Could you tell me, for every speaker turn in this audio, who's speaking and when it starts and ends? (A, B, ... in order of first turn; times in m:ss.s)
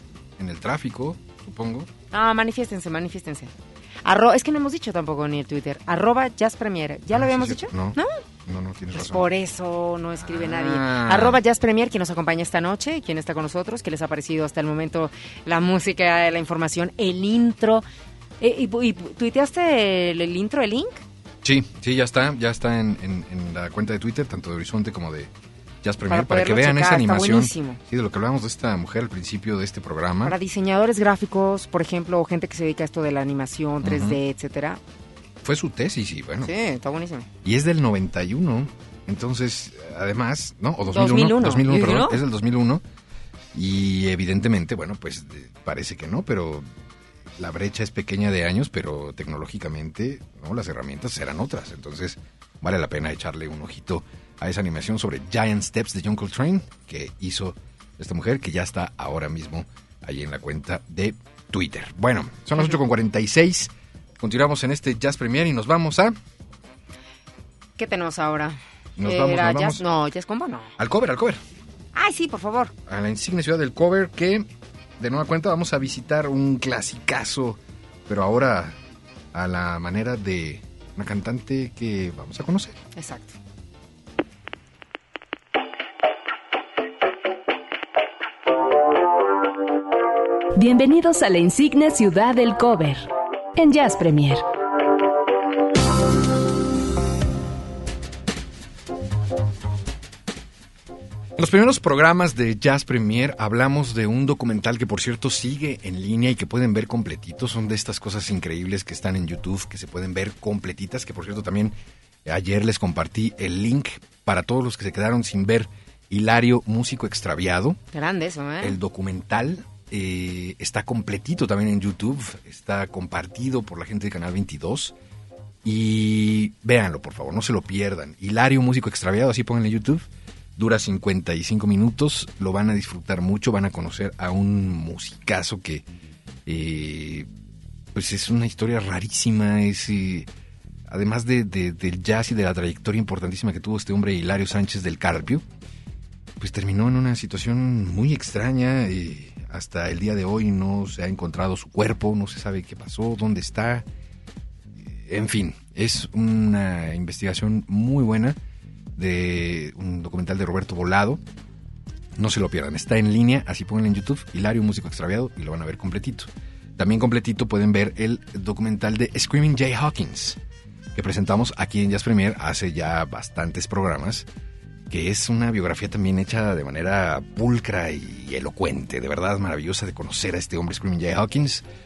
0:00.4-0:01.9 A
0:02.1-0:03.5 B
0:04.0-0:08.1 B
0:07.1-0:09.3 A
0:08.9-0:17.8 B
0:10.2-0:11.4 A
0:18.4-0:21.0 B
0:21.4-0:25.3 A
0:25.8-0:30.4 A
0:26.1-0:27.8 B
0:30.2-0:34.8 B
0:33.8-0:34.2 A
0:35.4-0:36.5 A
0:36.4-0:37.3 B
0:37.4-0:42.8 A
0:40.9-0:42.2 B
0:43.5-0:46.7 A
0:47.4-1:06.2 A
1:07.8-1:10.7 B
1:09.0-1:09.8 A
1:10.8-1:11.4 A
1:11.9-1:12.7 B
1:12.9-1:14.5 A
1:15.0-1:18.8 A
1:19.3-1:22.8 A
1:23.0-1:23.4 B
1:30.6-1:33.0 C
1:33.6-1:34.4 C
1:41.4-1:57.8 A
1:57.9-1:58.8 B
1:58.6-2:05.0 A
2:05.6-2:15.9 A
2:16.5-2:17.3 A
2:17.9-2:20.3 A
2:20.9-2:25.5 A
2:26.4-2:33.9 A
2:34.8-2:38.4 A
2:39.0-2:41.2 A
2:42.2-2:50.4 A
2:51.0-2:54.3 A
2:54.9-3:01.7 A